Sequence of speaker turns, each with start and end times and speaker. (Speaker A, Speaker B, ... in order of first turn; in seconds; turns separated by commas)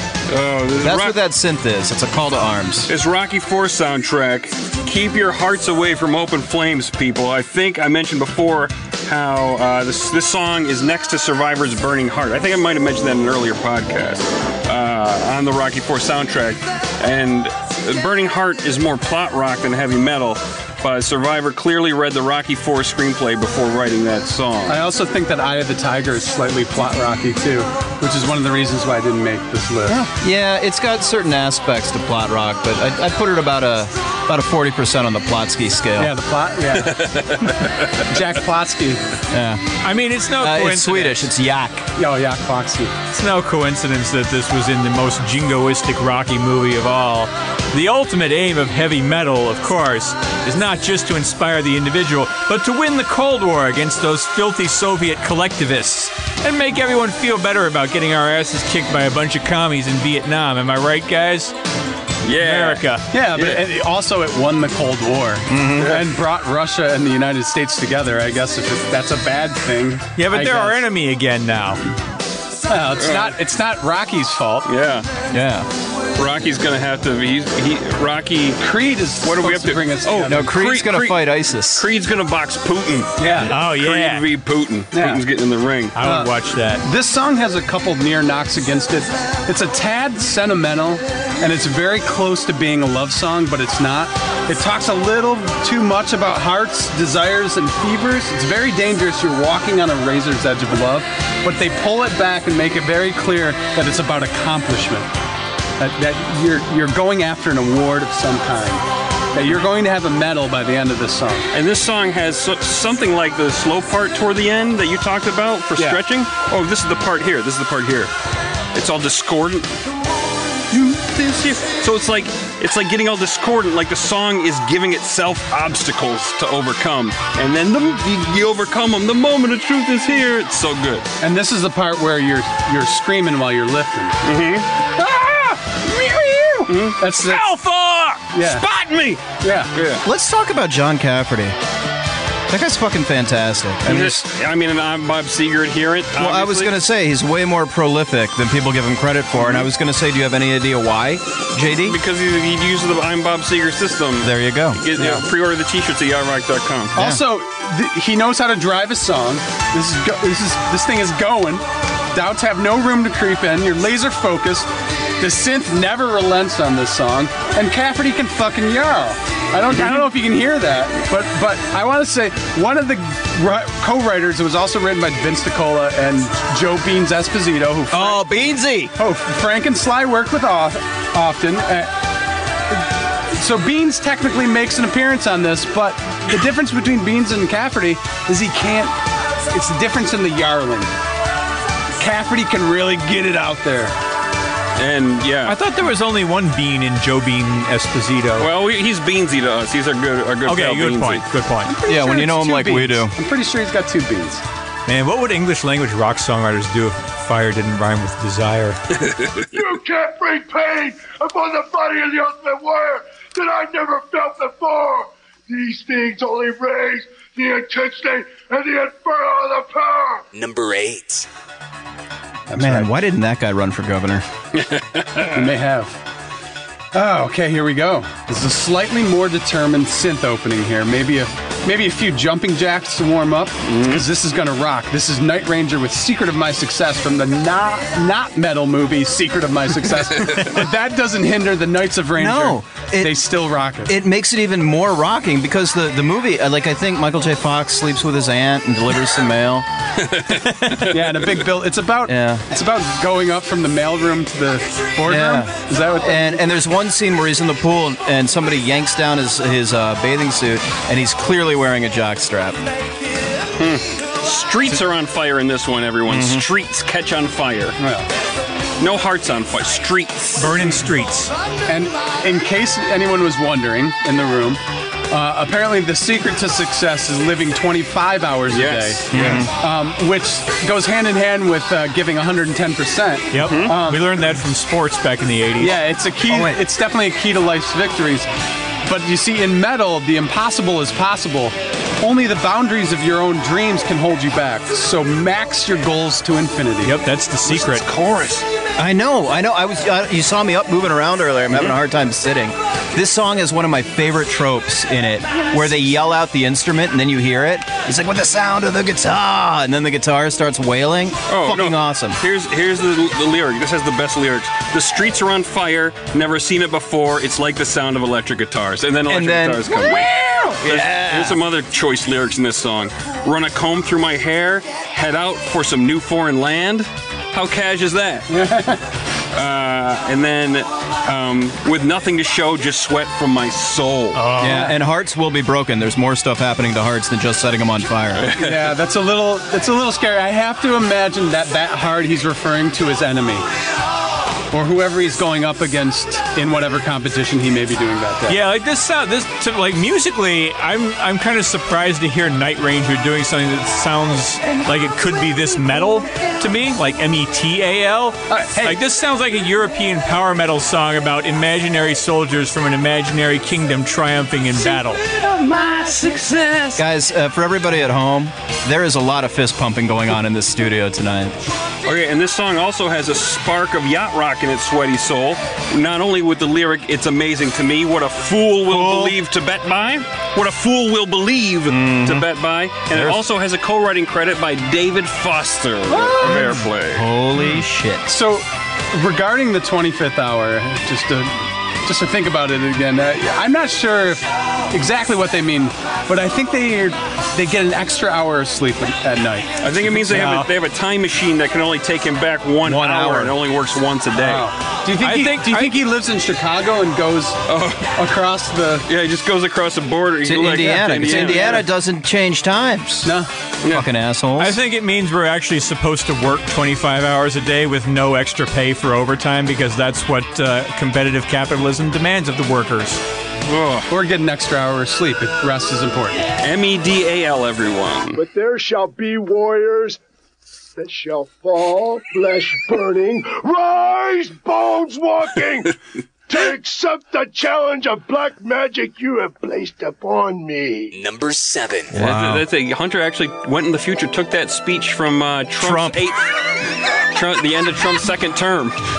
Speaker A: 0.3-1.2, Speaker B: 0.8-2.9, Speaker A: 2.9-24.8, Speaker C: 24.7-30.1, Speaker B: 29.9-36.1, Speaker C: 36.0-37.1, Speaker A: 36.8-38.1, Speaker C: 38.0-39.0, Speaker B: 39.3-39.6, Speaker D: 39.8-41.2, Speaker B: 40.4-41.9, Speaker C: 42.0-42.9, Speaker D: 43.1-61.6, Speaker A: 62.2-62.9, Speaker D: 62.4-63.1, Speaker C: 63.1-70.8, Speaker B: 65.5-66.0, Speaker D: 70.2-71.8, Speaker C: 72.7-74.7, Speaker A: 73.0-73.4, Speaker A: 74.7-75.1, Speaker B: 75.3-75.7, Speaker A: 76.2-78.6, Speaker C: 78.6-80.5, Speaker A: 79.2-86.0, Speaker B: 80.3-81.9, Speaker C: 83.2-83.5, Speaker D: 83.5-84.3, Speaker C: 84.9-85.2, Speaker D: 86.0-86.8, Speaker C: 86.0-105.1, Speaker C: 105.8-111.5, Speaker A: 111.5-118.1, Speaker C: 115.8-116.0, Speaker A: 118.7-119.7, Speaker A: 120.7-131.1, Speaker C: 131.2-134.2, Speaker A: 134.2-134.7, Speaker C: 135.0-137.5, Speaker A: 136.7-140.0, Speaker C: 138.3-138.7, Speaker C: 139.3-139.7, Speaker B: 140.0-141.6, Speaker B: 142.5-144.2, Speaker A: 143.9-146.7, Speaker B: 146.2-152.0, Speaker A: 149.4-149.7, Speaker A: 151.8-156.9, Speaker B: 154.2-154.8, Speaker C: 155.0-155.2, Speaker C: 156.9-164.7, Speaker B: 157.0-157.2, Speaker C: 165.2-178.2, Speaker B: 177.9-178.9, Speaker C: 179.0-182.0, Speaker C: 182.7-188.9, Speaker C: 189.5-190.9, Speaker C: 192.0-193.9, Speaker A: 194.8-195.6, Speaker D: 195.5-198.5, Speaker A: 198.4-201.3, Speaker D: 200.4-201.7, Speaker C: 201.7-204.4, Speaker B: 201.9-203.2, Speaker D: 204.9-208.8, Speaker E: 209.4-220.2, Speaker F: 220.3-221.3, Speaker C: 222.5-222.9, Speaker B: 222.6-224.2, Speaker A: 224.6-225.4, Speaker C: 225.2-226.0, Speaker C: 226.9-243.9, Speaker A: 233.7-234.0, Speaker B: 242.2-243.2, Speaker B: 243.8-249.7, Speaker A: 250.0-251.3, Speaker C: 250.9-256.5, Speaker B: 252.1-252.5, Speaker B: 255.1-262.6, Speaker A: 263.6-267.8, Speaker B: 266.1-266.4, Speaker C: 267.8-268.1, Speaker A: 268.8-270.6, Speaker D: 270.4-271.3, Speaker C: 271.7-284.3, Speaker A: 278.5-279.4, Speaker B: 279.1-279.5, Speaker D: 283.3-285.8, Speaker A: 283.4-283.8, Speaker C: 285.6-288.3, Speaker B: 286.3-286.6, Speaker C: 288.9-297.0, Speaker D: 296.8-297.8, Speaker A: 297.5-298.4, Speaker B: 298.8-312.2, Speaker A: 311.3-320.1, Speaker B: 319.1-321.4, Speaker A: 320.6-328.3, Speaker C: 328.3-328.8, Speaker A: 329.3-334.2, Speaker D: 334.1-334.7, Speaker B: 334.4-338.3, Speaker C: 334.4-334.8, Speaker A: 338.2-338.7, Speaker C: 338.4-343.4, Speaker C: 344.5-348.4, Speaker D: 348.3-365.0, Speaker C: 358.3-358.8, Speaker A: 365.1-366.8, Speaker B: 366.8-371.4, Speaker A: 371.9-387.1, Speaker B: 378.7-379.2, Speaker B: 381.7-382.3, Speaker B: 382.9-383.2, Speaker C: 385.9-386.6, Speaker B: 386.2-388.1, Speaker C: 387.4-399.5, Speaker A: 399.6-404.5, Speaker D: 399.9-400.5, Speaker B: 402.6-403.4, Speaker C: 404.1-407.4, Speaker D: 405.0-405.7, Speaker A: 407.5-407.9, Speaker C: 407.9-408.9, Speaker A: 408.9-411.6, Speaker B: 410.2-414.6, Speaker C: 410.8-411.6, Speaker C: 413.0-413.3, Speaker A: 413.6-413.9, Speaker D: 414.4-423.0, Speaker A: 423.4-423.9, Speaker C: 423.9-426.2, Speaker A: 426.4-428.2, Speaker E: 428.2-430.0, Speaker E: 430.8-440.9, Speaker F: 440.9-441.9, Speaker B: 441.9-442.4, Speaker A: 441.9-446.3, Speaker B: 445.6-446.0, Speaker A: 447.1-448.8